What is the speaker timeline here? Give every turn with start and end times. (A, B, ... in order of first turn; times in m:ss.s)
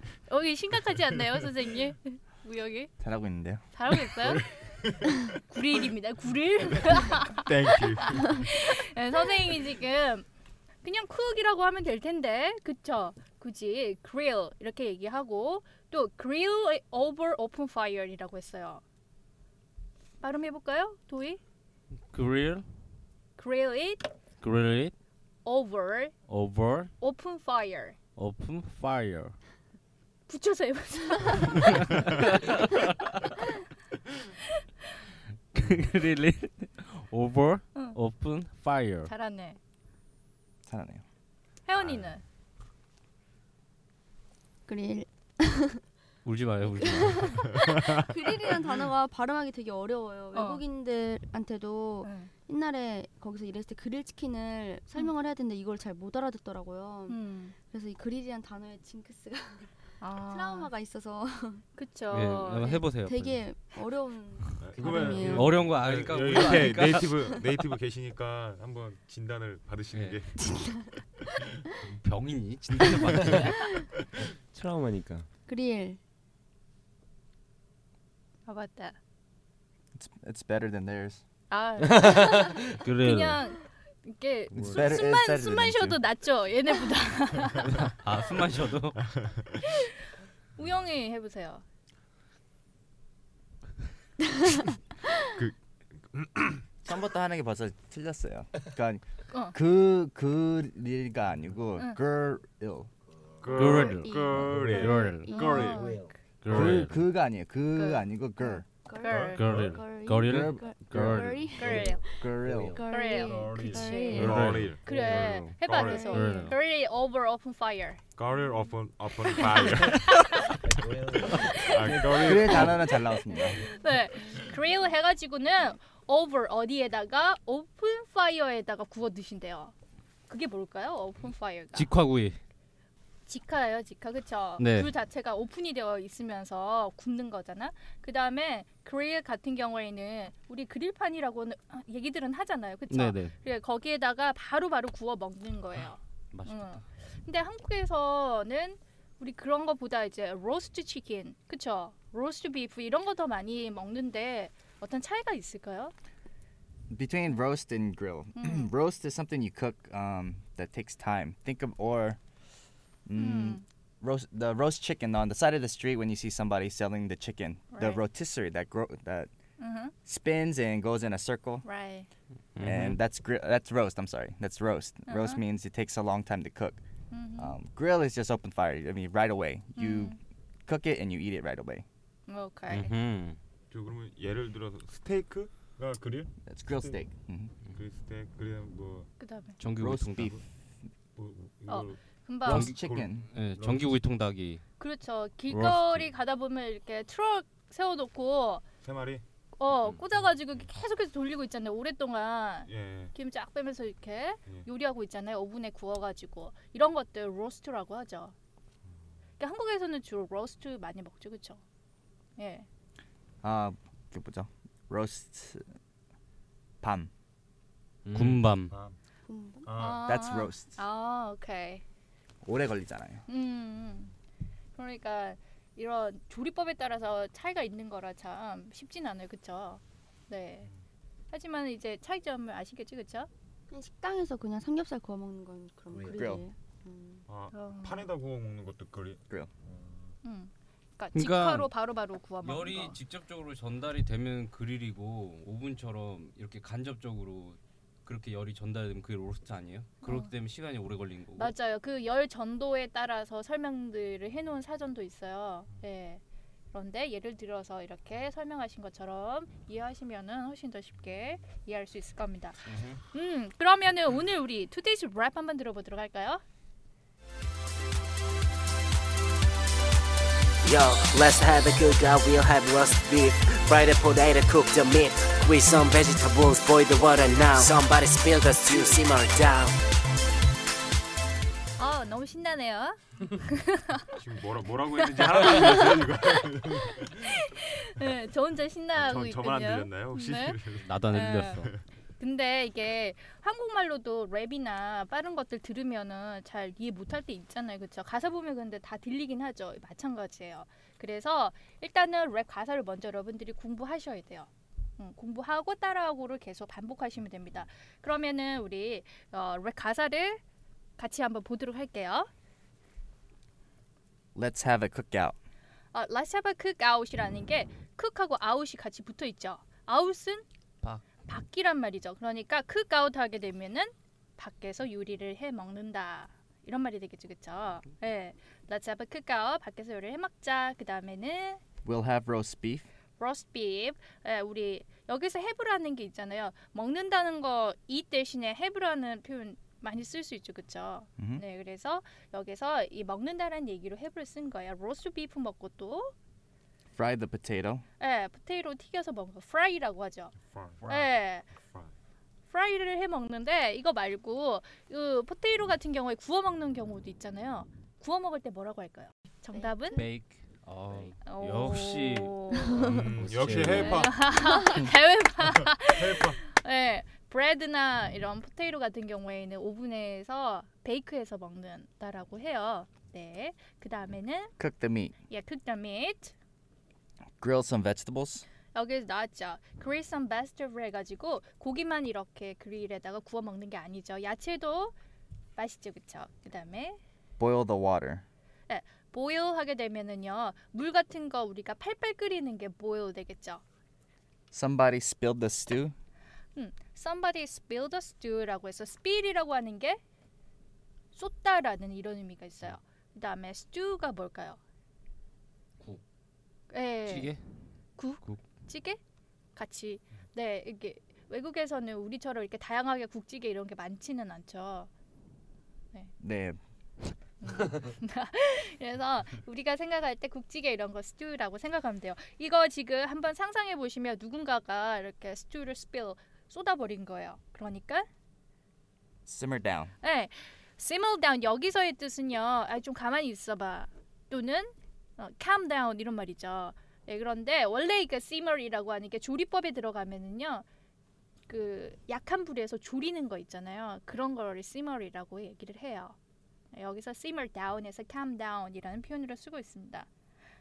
0:00.3-0:02.9 A
0:01.1-0:01.4 B
0:03.0-0:03.6 C
0:03.7-0:04.5 A
0:03.9-0:05.3 B
0:05.4-0:10.3 A
0:07.4-0:08.5 B
0:10.8-0:18.8 A
0:20.2-0:21.4 A
0:22.1-0:22.6 D
0:23.4-0:24.1 A
0:24.4-0:24.9 D
0:25.4-0:26.1 A
0:26.3-0:26.9 D
0:27.0-0:28.0 A
0:28.2-0:29.4 D
0:30.3-0:31.7 A
0:31.8-0:33.0 D
0:35.5-0:39.1 D
0:39.0-0:39.6 A
0:40.6-0:41.0 C
0:41.6-0:42.2 A
0:44.7-0:45.8 E
0:46.2-0:47.4 D
0:46.8-1:01.6 E
0:50.3-0:50.6 A
0:52.0-0:52.3 A
0:57.1-0:57.5 A
1:00.0-1:00.7 A
1:01.8-1:02.8 A
1:02.1-1:03.4 D
1:02.6-1:05.5 E
1:04.6-1:10.8 B
1:04.9-1:05.2 A
1:05.3-1:07.6 D
1:09.9-1:10.2 D
1:10.5-1:10.8 E
1:11.8-1:13.6 D
1:14.5-1:15.3 F
1:15.5-1:16.0 E
1:18.4-1:19.0 A
1:19.9-1:21.2 C
1:21.5-1:27.7 A
1:21.9-1:22.8 F
1:22.8-1:23.4 D
1:24.5-1:24.9 D
1:24.5-1:26.0 C
1:27.6-1:29.0 D
1:29.7-1:29.9 A
1:30.6-1:31.6 A
1:35.3-1:36.7 B
1:36.8-1:42.9 C
1:36.9-1:37.2 F
1:43.4-1:45.8 B
1:43.5-1:45.3 D
1:43.6-1:45.8 E
1:45.3-1:46.0 A
1:45.7-1:46.1 F
1:46.4-1:47.0 D
1:46.5-1:48.6 C
1:46.5-1:46.9 B
1:47.7-1:48.0 A
1:48.4-1:55.1 E
1:49.0-1:49.5 A
1:49.1-1:49.8 B
1:49.3-1:51.8 D
1:50.2-1:51.3 C
1:51.5-1:52.0 A
1:52.1-1:52.8 C
1:52.4-1:52.8 F
1:52.9-1:54.3 A
1:53.2-1:56.1 B
1:54.2-1:54.7 D
1:54.8-1:58.0 A
1:55.8-1:56.4 E
1:56.1-1:56.5 D
1:58.2-2:00.5 B
1:59.4-2:00.4 A
2:00.7-2:02.0 F
2:01.3-2:09.7 A
2:01.5-2:02.9 B
2:02.0-2:03.6 C
2:10.3-2:11.9 A
2:11.7-2:12.4 D
2:13.3-2:35.9 A
2:14.6-2:14.9 D
2:22.9-2:23.3 D
2:26.3-2:26.8 F
2:36.9-2:42.2 C
2:38.4-2:38.7 A
2:43.0-2:49.3 C
2:43.2-2:43.6 A
2:47.7-2:48.0 A
2:49.6-2:49.9 A
2:50.0-2:51.6 C
2:51.6-2:52.1 A
2:52.6-2:53.0 D
2:52.6-2:56.8 C
2:55.1-2:55.4 A
2:57.1-2:57.5 A
2:57.4-3:01.8 C
2:59.8-3:00.2 A
3:02.3-3:02.9 A
3:02.7-3:03.4 D
3:03.7-3:07.0 B
3:06.4-3:07.5 C
3:07.7-3:09.1 B
3:09.2-3:09.6 A
3:09.6-3:10.4 D
3:09.8-3:10.4 C
3:11.2-3:14.0 B
3:11.7-3:12.7 A
3:12.4-3:14.6 D
3:12.5-3:13.2 C
3:14.8-3:18.6 A
3:15.5-3:16.1 D
3:18.8-3:19.2 B
3:19.6-3:28.3 A
3:20.2-3:20.6 B
3:22.7-3:23.1 B
3:29.4-3:31.6 A
3:32.4-3:32.7 A
3:33.4-3:35.6 C
3:36.8-3:37.1 C
3:38.0-3:38.4 F
3:38.1-3:38.7 D
3:38.6-3:39.0 B
3:39.3-3:39.7 E
3:39.6-3:40.0 B
3:39.8-3:41.8 A
3:40.0-3:40.7 C
3:42.4-3:43.2 C
3:43.3-3:44.1 A
3:44.8-3:50.7 A
3:51.3-3:53.3 A
3:53.7-3:57.2 E
3:56.1-3:56.4 C
3:57.3-4:00.1 B
3:57.5-3:58.1 A
4:00.2-4:03.0 A
4:01.1-4:01.7 D
4:02.4-4:11.5 D
4:10.0-4:10.3 A
4:11.4-4:16.2 A
4:16.7-4:22.6 A
4:23.1-4:26.4 A
4:30.6-4:39.8 G
4:41.8-4:44.0 A
4:44.1-4:47.4 B
4:45.0-4:46.4 A
4:47.0-4:50.6 A
4:48.9-4:51.0 B
4:50.8-4:51.7 D
4:51.1-4:51.7 A
4:52.2-5:10.4 A
5:11.0-5:12.3 A
5:14.3-5:15.4 C
5:15.9-5:20.4 A
5:21.3-5:31.6 A
5:31.8-5:32.9 C
5:33.2-5:46.1 A
5:46.9-5:47.8 C
5:48.0-5:50.3 A
5:50.5-5:51.9 B
5:50.9-5:51.5 A
5:52.5-6:00.0 A
5:59.5-5:59.9 E
5:59.9-6:04.1 D
6:01.2-6:02.8 A
6:02.7-6:03.0 E
6:02.7-6:04.3 B
6:03.6-6:14.5 A
6:05.8-6:06.4 B
6:14.6-6:15.1 C
6:15.3-6:16.3 A
6:17.4-6:18.4 C
6:18.7-6:24.9 A
6:25.6-6:27.0 A
6:27.4-6:28.2 C
6:28.7-6:33.6 A
6:34.5-6:35.9 C
6:36.6-6:40.0 A
6:41.1-6:44.6 A
6:46.7-6:47.3 A
6:47.0-6:47.4 D
6:48.0-6:49.0 A
6:49.6-6:54.9 A
6:56.2-6:56.6 C
6:57.4-7:08.1 A
7:09.2-7:09.9 C
7:10.0-7:20.6 A
7:21.5-7:26.2 A
7:26.7-7:30.1 A